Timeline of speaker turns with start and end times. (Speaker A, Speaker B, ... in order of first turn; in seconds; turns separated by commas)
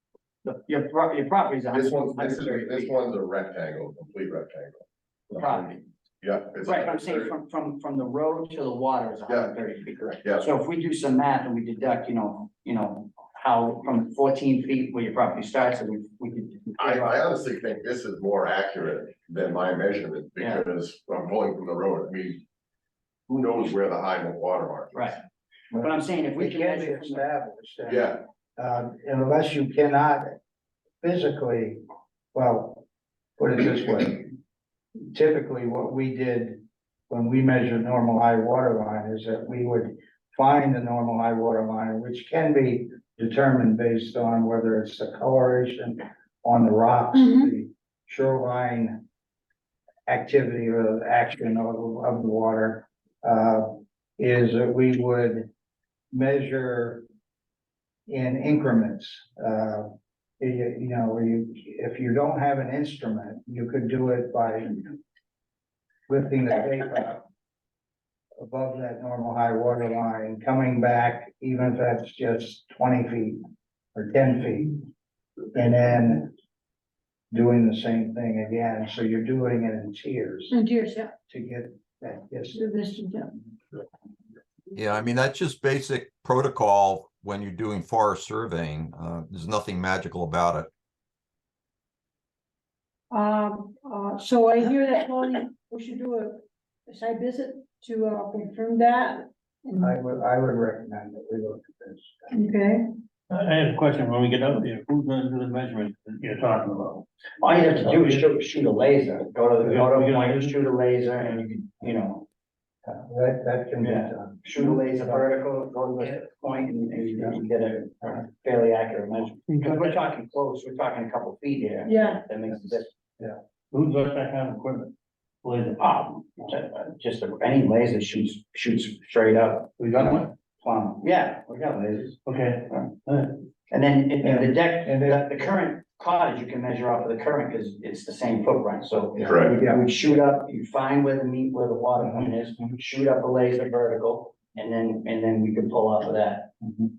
Speaker A: 0.4-3.0, Speaker B: 1.7-7.3, Speaker A: 5.3-5.8, Speaker A: 6.6-17.3, Speaker B: 9.3-9.5, Speaker B: 16.8-22.4, Speaker A: 20.4-20.6, Speaker B: 23.3-25.1, Speaker A: 24.9-25.2, Speaker C: 25.7-30.4, Speaker A: 25.8-27.3, Speaker B: 27.9-28.2, Speaker C: 31.0-31.8, Speaker C: 32.3-32.8, Speaker C: 33.4-34.4, Speaker C: 35.1-49.0, Speaker D: 47.1-47.5, Speaker C: 50.1-55.5, Speaker C: 56.1-57.0, Speaker C: 58.1-64.9, Speaker C: 66.1-67.2, Speaker C: 68.4-73.4, Speaker C: 74.0-74.8, Speaker C: 75.5-76.3, Speaker C: 77.3-80.6, Speaker D: 80.5-81.1, Speaker C: 81.3-82.6, Speaker D: 82.5-83.4, Speaker E: 84.8-90.7, Speaker D: 93.1-96.4, Speaker D: 96.9-100.0, Speaker C: 99.8-102.3, Speaker D: 102.3-102.9, Speaker F: 103.3-107.0, Speaker A: 107.4-112.2, Speaker F: 107.7-108.2, Speaker F: 109.6-110.5, Speaker C: 112.9-115.2, Speaker A: 113.8-122.9, Speaker F: 119.5-120.0, Speaker D: 121.9-122.2, Speaker F: 123.7-124.9, Speaker F: 125.4-125.8, Speaker A: 125.8-132.9, Speaker F: 129.8-130.2, Speaker F: 132.2-133.4, Speaker A: 133.7-146.5, Speaker C: 134.2-135.2, Speaker C: 139.2-140.0, Speaker B: 139.2-139.5, Speaker C: 142.0-142.3